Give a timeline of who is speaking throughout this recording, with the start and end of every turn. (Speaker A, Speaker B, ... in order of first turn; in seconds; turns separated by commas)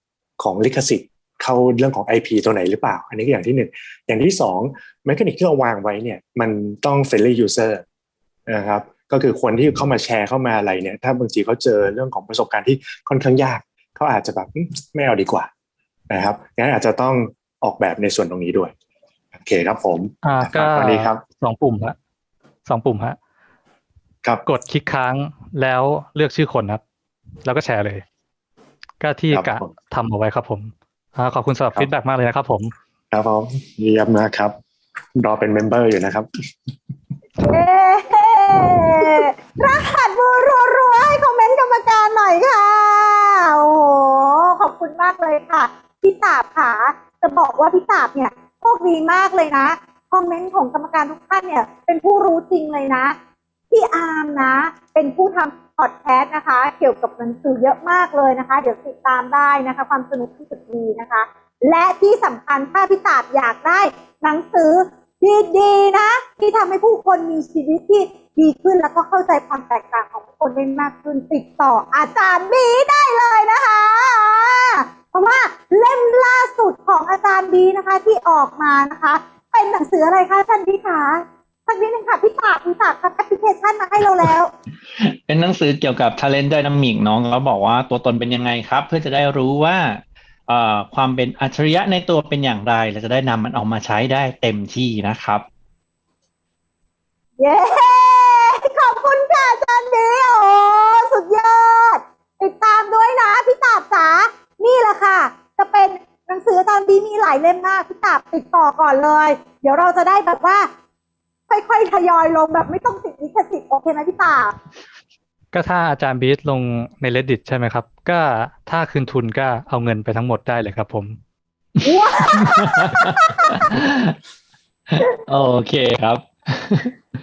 Speaker A: 0.4-7.8, Speaker A: 8.5-15.5, Speaker A: 16.1-18.7, Speaker A: 19.4-21.2, Speaker B: 20.2-21.9, Speaker B: 22.6-23.2, Speaker B: 24.4-26.8, Speaker B: 27.4-28.0, Speaker B: 29.0-32.7, Speaker A: 29.3-29.7, Speaker A: 33.1-34.5, Speaker A: 35.1-36.3, Speaker C: 37.4-53.1, Speaker C: 53.7-84.5, Speaker D: 85.0-95.4, Speaker C: 97.4-110.7, Speaker C: 111.5-114.5, Speaker B: 115.5-121.2, Speaker D: 121.8-124.2, Speaker C: 121.8-123.6, Speaker D: 124.9-126.9